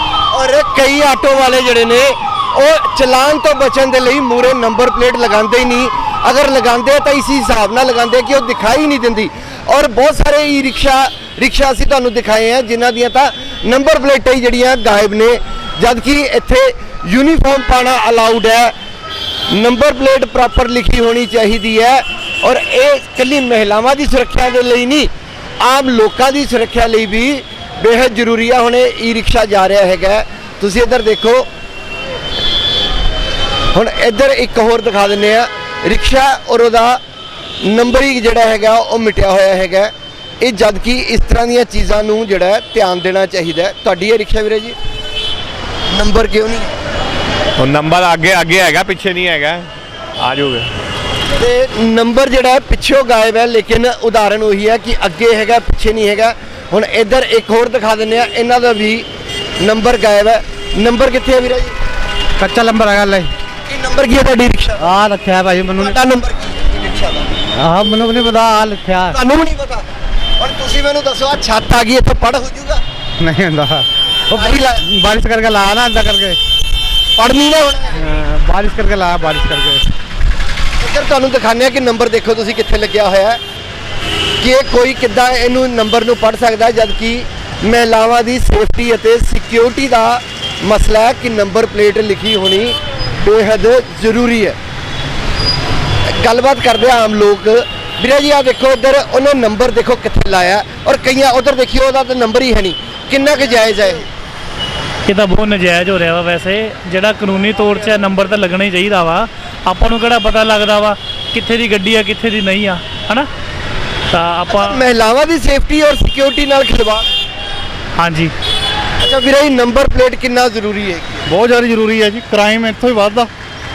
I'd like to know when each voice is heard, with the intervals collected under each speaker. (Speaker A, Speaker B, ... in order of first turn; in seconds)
Speaker A: 0.3-18.8, 19.5-31.5, 33.7-37.0, 37.6-44.8, 45.9-46.7, 51.4-59.1, 59.6-61.7, 63.7-64.9, 65.8-67.3, 69.1-69.8, 70.4-72.8, 74.3-74.8, 77.2-78.0, 80.8-83.4, 84.4-94.6, 96.1-104.1, 114.5-117.1, 119.0-121.3
Speaker B: 47.6-49.7, 50.2-50.7
Speaker C: 62.4-63.3, 64.8-66.0, 67.6-69.2, 73.2-76.4, 78.0-79.9
Speaker D: 105.1-113.3, 114.1-114.8, 118.0-118.3
Speaker E: 121.3-123.3